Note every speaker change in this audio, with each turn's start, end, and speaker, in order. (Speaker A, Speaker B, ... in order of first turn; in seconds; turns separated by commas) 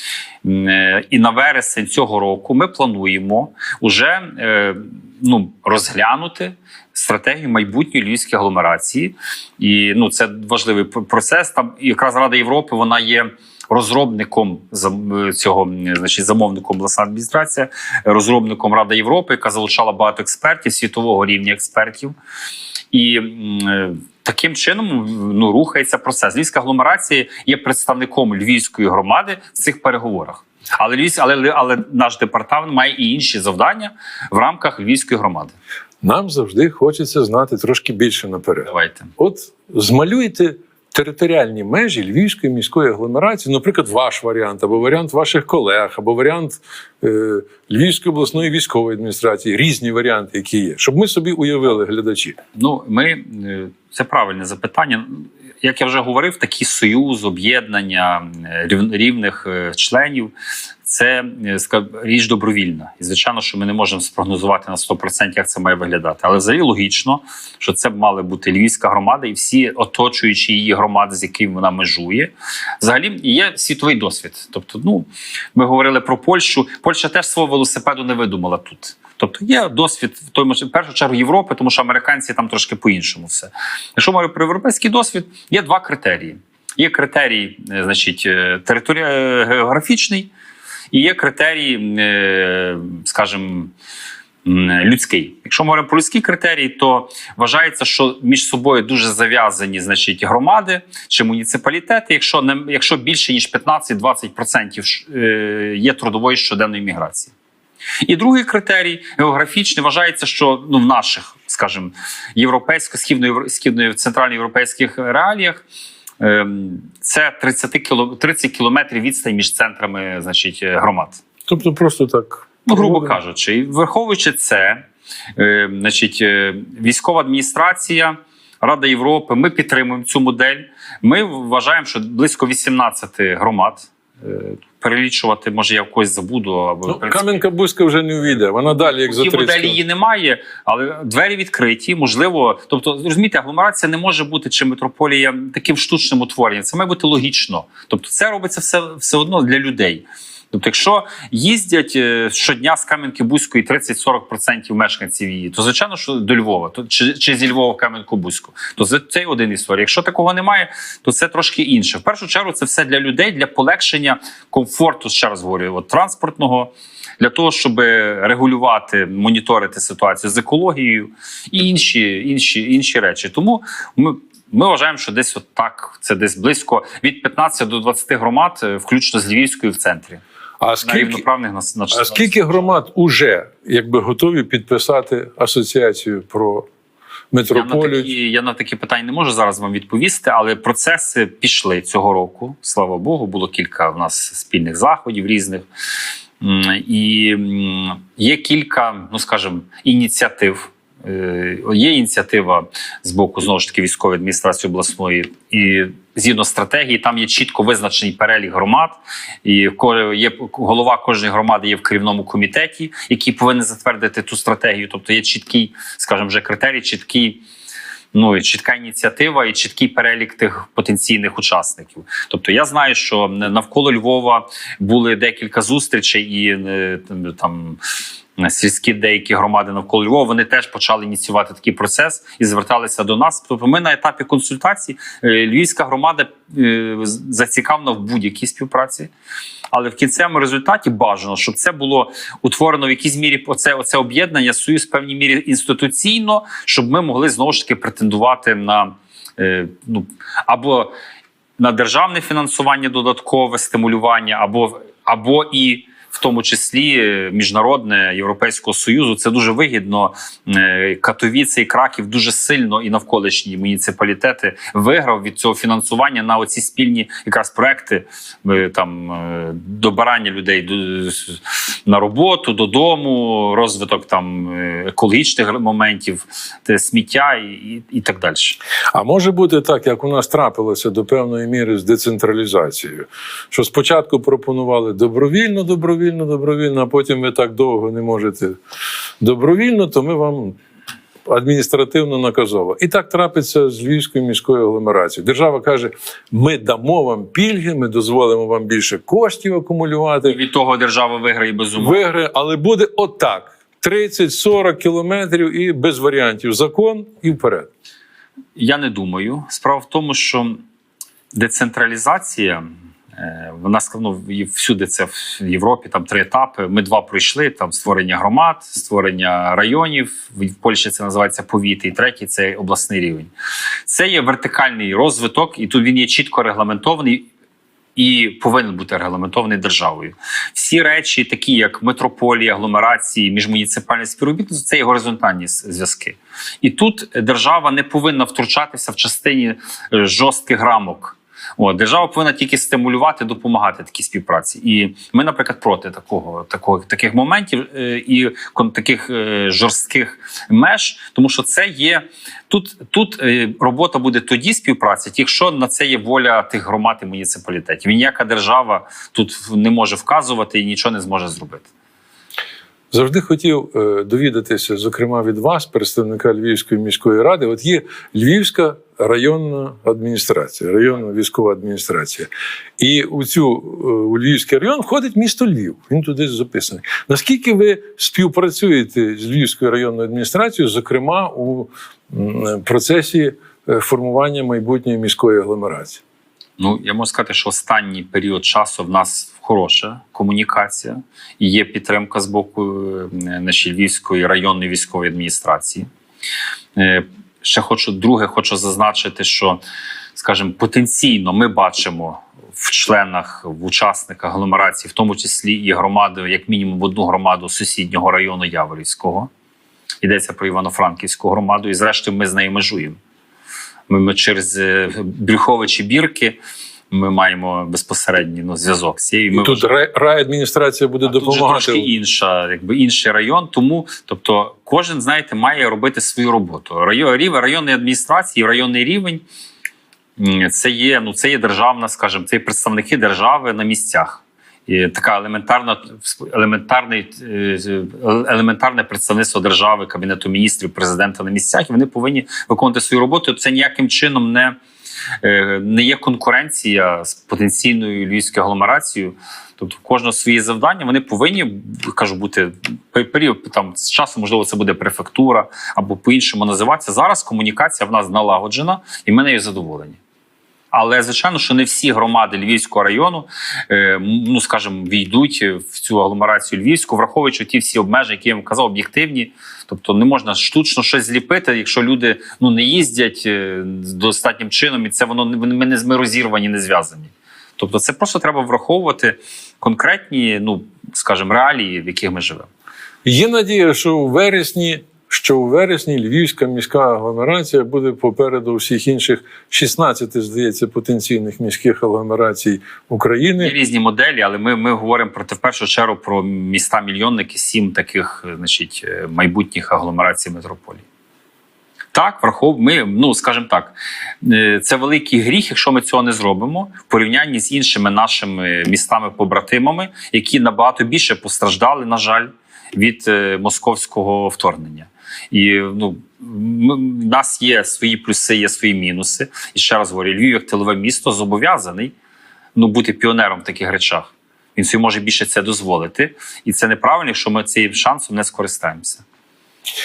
Speaker A: 0.4-22.1, Speaker A: 22.9-35.5, Speaker B: 36.0-52.4, Speaker A: 38.7-39.1, Speaker A: 52.5-60.3, Speaker A: 60.8-90.3, Speaker A: 90.9-93.7, Speaker A: 94.5-107.3, Speaker A: 108.0-115.6, Speaker A: 116.2-121.2, Speaker B: 121.5-123.2, Speaker A: 122.7-124.9, Speaker A: 125.4-137.4, Speaker B: 136.9-139.8, Speaker A: 138.7-180.2, Speaker B: 180.6-181.2, Speaker A: 180.8-182.7, Speaker B: 181.9-186.7, Speaker B: 187.3-188.1, Speaker A: 187.5-195.7, Speaker A: 196.4-217.4, Speaker A: 218.1-227.8, Speaker A: 228.4-239.1, Speaker A: 239.7-250.9, Speaker A: 251.6-278.6, Speaker B: 278.9-288.6, Speaker B: 289.2-290.6, Speaker B: 291.3-300.4, Speaker A: 300.3-302.0, Speaker B: 301.8-307.7, Speaker A: 308.6-310.6, Speaker A: 311.3-323.3, Speaker A: 323.9-327.3, Speaker A: 328.0-361.7, Speaker B: 362.9-386.0, Speaker A: 386.6-395.9, Speaker A: 396.8-399.6, Speaker A: 400.2-409.3, Speaker A: 410.0-413.0, Speaker A: 413.9-416.4, Speaker A: 416.9-419.7, Speaker B: 419.3-421.9, Speaker A: 421.0-429.2, Speaker A: 430.2-444.6, Speaker A: 445.2-460.0, Speaker A: 460.7-482.5, Speaker B: 483.1-493.6, Speaker A: 493.4-500.8, Speaker A: 501.9-521.9, Speaker A: 522.5-529.0